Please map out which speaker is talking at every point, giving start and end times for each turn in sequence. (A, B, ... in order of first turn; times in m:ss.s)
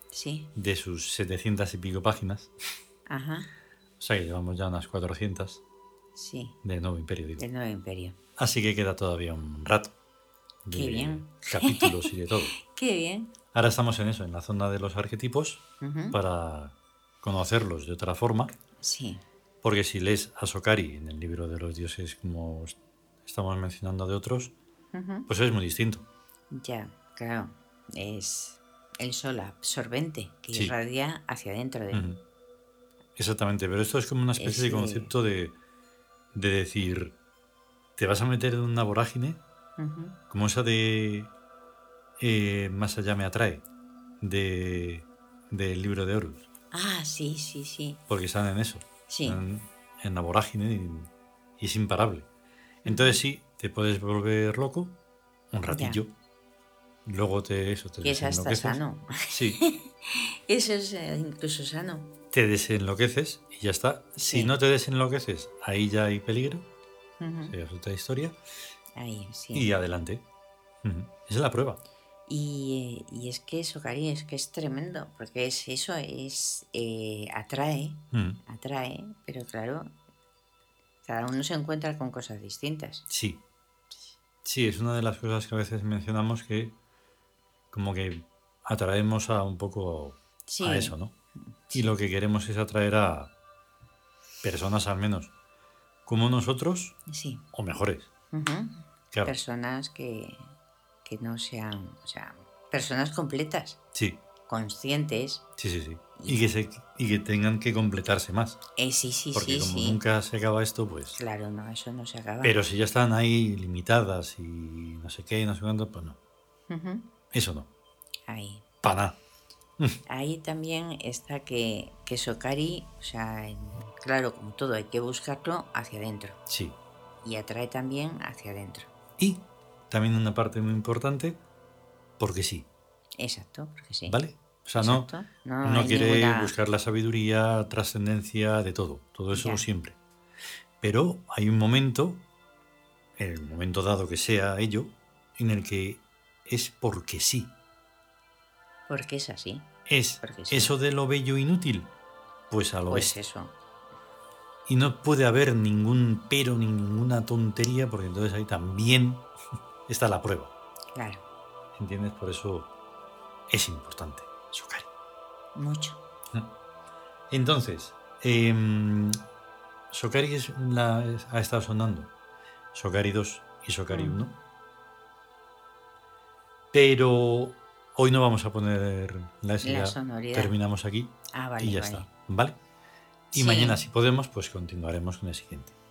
0:00.1-0:00.5 A
0:00.6-0:02.5 B
0:03.1-0:03.5 A
0:04.0-0:05.6 B
0:06.2-0:06.6 A
0:06.6-0:07.4 B
0:07.4-0:08.2 A
0:08.4-0:09.9 B
0:10.6-0:12.6 B
0:10.7-0:13.3 A
0:13.5-0:18.6 B
0:15.8-0:16.2 A
0:18.8-0:19.2 A
0:19.6-0:24.5 B
0:24.9-0:25.3 A
0:25.3-0:26.0 B
0:26.5-0:32.0 A
0:31.9-0:32.2 B
0:33.2-0:35.6 B
0:34.4-0:35.1 A
0:36.3-0:37.2 B
0:38.0-0:39.4 B
0:39.8-0:40.2 A
0:40.3-0:41.3 B
0:42.2-0:43.6 B
0:44.2-0:46.5 B
0:46.7-0:48.0 A
0:48.1-0:52.3 B
0:49.1-0:49.4 A
0:52.8-0:55.0 B
0:52.8-0:53.2 A
0:55.5-0:56.1 B
0:55.7-0:56.0 A
0:57.0-0:58.8 B
0:58.0-1:02.1 A
0:59.3-0:59.6 B
1:02.3-1:06.7 B
1:04.2-1:04.5 A
1:07.2-1:07.6 A
1:07.5-1:08.4 B
1:09.0-1:09.7 A
1:09.5-1:10.2 B
1:10.8-1:11.8 B
1:12.3-1:19.9 A
1:18.1-1:18.4 B
1:21.0-1:23.1 A
1:23.1-1:23.4 B
1:24.4-1:26.8 B
1:27.7-1:31.1 B
1:30.5-1:31.0 A
1:31.5-1:31.9 A
1:31.7-1:33.3 B
1:34.4-1:35.3 B
1:36.1-1:37.0 B
1:37.1-1:37.4 A
1:37.5-1:38.1 B
1:38.3-1:40.5 A
1:41.0-1:43.8 A
1:43.9-1:44.2 B
1:44.5-1:45.4 A
1:45.6-1:48.6 B
1:46.2-1:46.5 A
1:48.8-1:50.0 A
1:49.3-1:51.2 B
1:51.1-1:52.6 A
1:52.4-1:56.2 B
1:56.7-1:57.1 A
1:57.3-1:57.7 B
1:58.3-1:58.6 A
1:58.8-1:59.2 B
2:00.1-2:06.4 A
2:06.5-2:06.8 B
2:07.2-2:08.9 A
2:09.2-2:11.4 B
2:12.2-2:12.7 B
2:13.2-2:14.2 A
2:14.1-2:15.1 B
2:14.8-2:16.5 A
2:15.6-2:20.0 B
2:19.3-2:19.6 A
2:20.8-2:22.2 B
2:23.2-2:27.5 B
2:28.9-2:29.7 A
2:29.9-2:31.9 B
2:30.2-2:30.7 A
2:32.5-2:33.2 B
2:32.9-2:33.5 A
2:34.7-2:39.3 B
2:39.9-2:40.5 B
2:40.9-2:41.2 A
2:41.8-2:42.7 B
2:43.5-2:44.9 B
2:45.6-2:46.0 A
2:47.3-2:49.2 B
2:49.9-2:52.1 B
2:52.7-2:54.4 B
2:53.9-2:54.2 A
2:56.7-3:02.6 B
2:59.6-3:00.6 A
3:01.3-3:02.1 A
3:03.3-3:05.7 B
3:03.3-3:03.8 A